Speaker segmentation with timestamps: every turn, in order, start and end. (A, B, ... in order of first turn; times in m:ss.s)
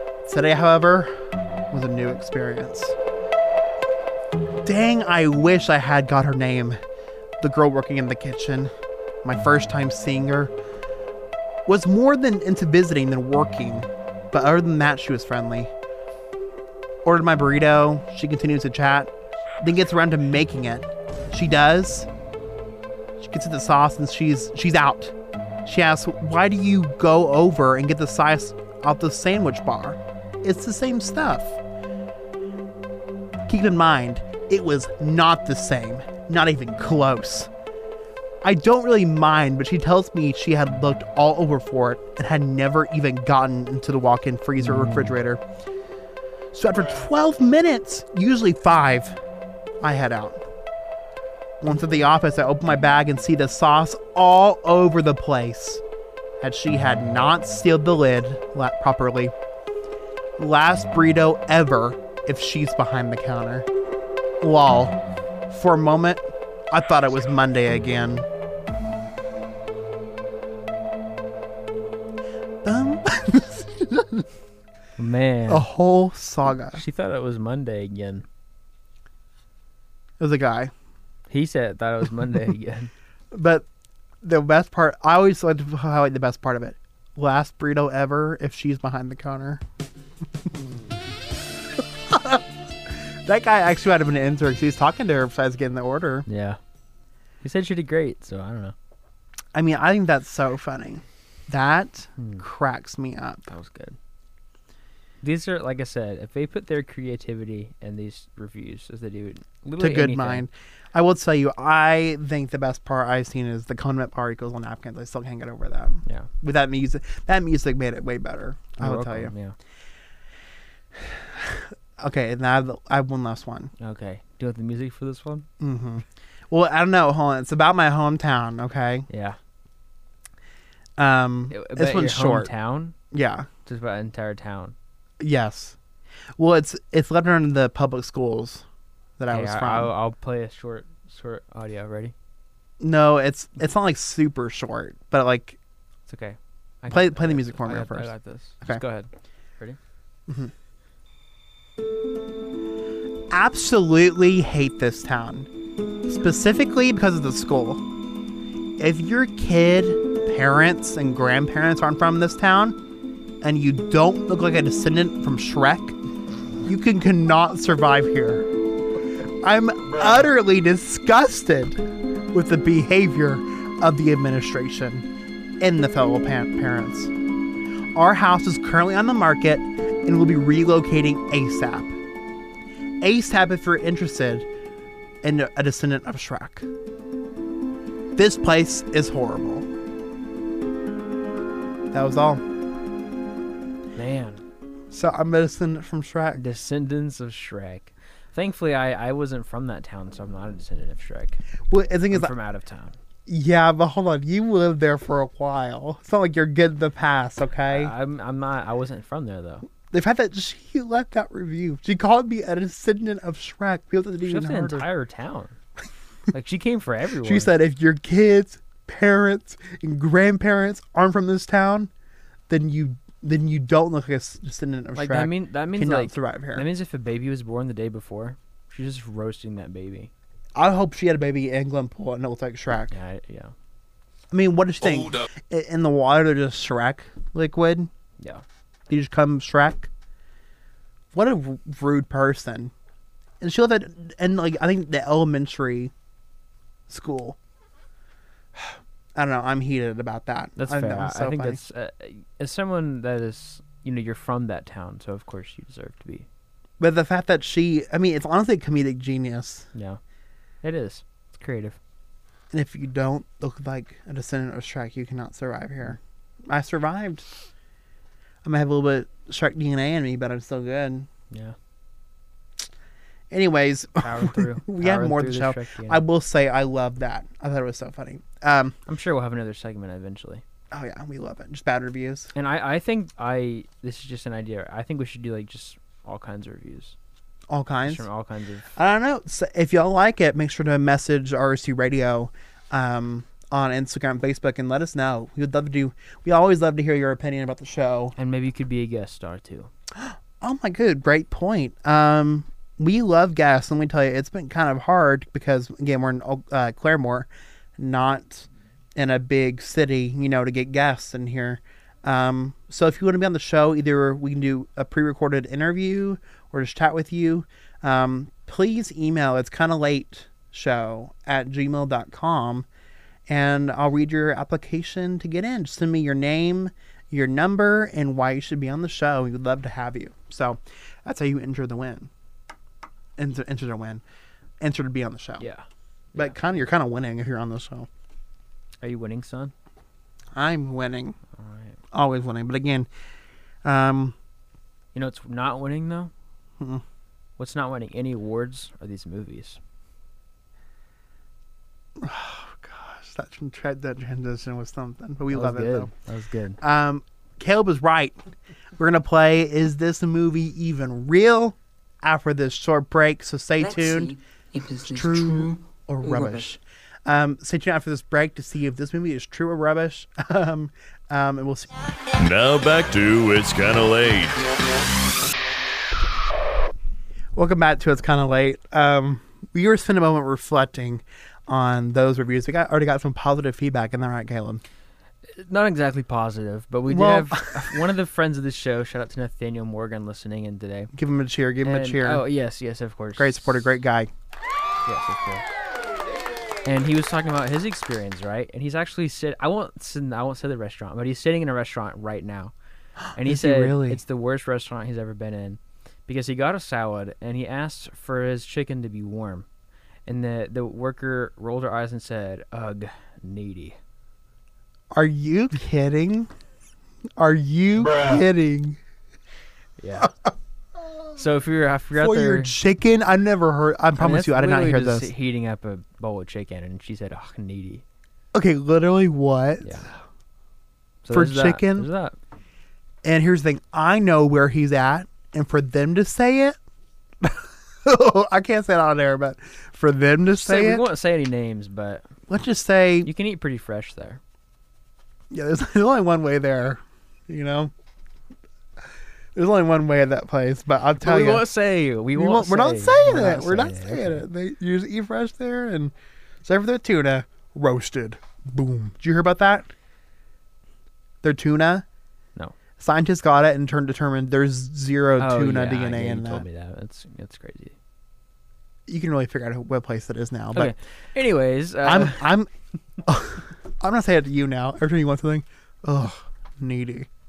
0:00.2-0:01.1 A
0:01.7-0:03.0 A
0:04.6-0:06.8 A
0:07.4-0:08.7 A
0:09.2-0:10.5 A
0:11.7-0:15.7 A
0:17.0-0:22.1 A
0:23.2-0:31.6 A
0:33.5-0:37.5 A
0:38.4-0:45.4 A
0:44.6-0:45.1 B
0:46.5-0:49.2 A
0:49.8-0:50.4 A
0:51.6-0:55.8 A
0:56.4-0:59.3 A
1:00.4-1:03.7 A
1:04.4-1:08.3 A
1:12.6-1:14.3 A
1:15.0-1:15.7 B
1:15.5-1:16.8 A
1:16.7-1:18.3 B
1:20.2-1:20.7 A
1:21.3-1:22.9 B
1:23.3-1:23.6 A
1:24.2-1:29.6 A
1:31.8-1:36.3 A
1:36.3-1:36.6 B
1:37.4-1:38.8 B
1:39.5-1:43.5 A
1:42.2-1:42.4 B
1:43.5-1:44.0 B
1:45.2-1:50.5 B
1:49.8-1:59.3 A
1:58.8-1:59.6 B
2:01.0-2:03.7 A
2:03.8-2:05.5 B
2:05.6-2:09.1 A
2:09.1-2:09.4 B
2:11.0-2:12.5 A
2:11.5-2:13.0 B
2:13.1-2:13.5 A
2:13.7-2:14.8 B
2:15.2-2:15.8 A
2:16.4-2:18.6 A
2:19.2-2:19.9 A
2:19.3-2:22.1 B
2:22.8-2:25.6 A
2:26.1-2:29.8 B
2:26.9-2:28.1 A
2:30.3-2:30.5 A
2:33.3-2:35.5 A
2:36.1-2:37.8 A
2:38.8-2:42.8 A
2:43.4-2:46.0 A
2:46.6-2:48.5 A
2:49.4-2:55.1 A
2:55.6-2:57.1 A
2:57.9-3:02.0 A
3:03.0-3:04.5 A
3:05.2-3:06.7 A
3:08.2-3:09.7 A
3:11.9-3:12.4 A
3:14.0-3:14.4 B
3:14.9-3:16.4 A
3:16.4-3:21.4 B
3:21.7-3:22.3 A
3:22.1-3:23.0 B
3:23.3-3:27.9 A
3:27.7-3:29.7 B
3:29.8-3:34.9 A
3:34.2-3:35.6 B
3:36.3-3:37.5 B
3:37.2-3:41.9 A
3:42.5-3:46.7 A
3:45.0-3:50.1 B
3:50.6-3:53.0 A
3:52.9-3:53.5 B
3:54.3-3:57.9 A
3:58.9-3:59.9 A
4:01.1-4:02.7 A
4:03.4-4:05.9 A
4:06.9-4:07.4 A
4:08.6-4:11.6 A
4:10.6-4:16.3 B
4:16.8-4:19.7 A
4:19.7-4:20.0 B
4:20.6-4:21.8 B
4:22.5-4:27.3 A
4:28.4-4:31.1 A
4:33.3-4:38.8 A
4:34.0-4:36.0 B
4:38.9-4:40.4 B
4:40.7-4:42.3 A
4:42.4-4:47.0 B
4:47.5-4:48.1 A
4:47.8-4:48.7 B
4:48.8-4:58.2 A
4:58.2-4:59.7 B
5:00.0-5:22.7 A
5:23.3-5:32.1 A
5:33.2-5:34.0 A
5:34.6-5:35.5 A
5:35.4-5:36.4 B
5:36.2-5:37.9 A
5:38.8-5:39.5 B
5:40.3-5:41.2 A
5:41.4-5:41.8 B
5:41.9-5:42.9 A
5:43.6-5:44.2 A
5:44.9-5:46.1 B
5:47.4-5:49.6 B
5:52.0-5:55.9 A
5:55.3-5:56.6 B
5:56.6-6:04.2 A
6:03.6-6:06.5 C
6:04.9-6:11.7 A
6:12.2-6:14.4 D
6:17.4-6:24.6 A
6:25.3-6:30.9 B
6:26.9-6:27.8 A
6:30.9-6:32.2 A
6:31.6-6:33.6 B
6:33.2-6:34.1 A
6:34.9-6:35.4 B
6:36.6-6:42.5 B
6:43.1-6:44.0 A
6:43.2-6:49.5 B
6:50.1-6:53.8 B
6:54.9-6:56.3 A
6:57.2-6:58.8 A
6:59.8-7:00.1 B
7:01.2-7:02.5 B
7:02.0-7:05.1 A
7:04.0-7:07.8 B
7:08.3-7:09.8 A
7:09.6-7:09.9 B
7:11.0-7:12.2 B
7:11.1-7:11.9 A
7:13.0-7:16.6 A
7:17.2-7:20.9 A
7:20.4-7:22.0 B
7:22.3-7:23.1 A
7:23.0-7:24.2 B
7:25.3-7:27.7 A
7:29.4-7:31.4 A
7:31.0-7:34.2 B
7:32.2-7:39.7 A
7:41.2-7:41.8 A
7:42.8-7:46.4 A
7:45.2-7:47.8 B
7:48.9-7:50.7 A
7:50.5-7:52.3 B
7:51.8-7:52.5 A
7:53.0-7:57.1 A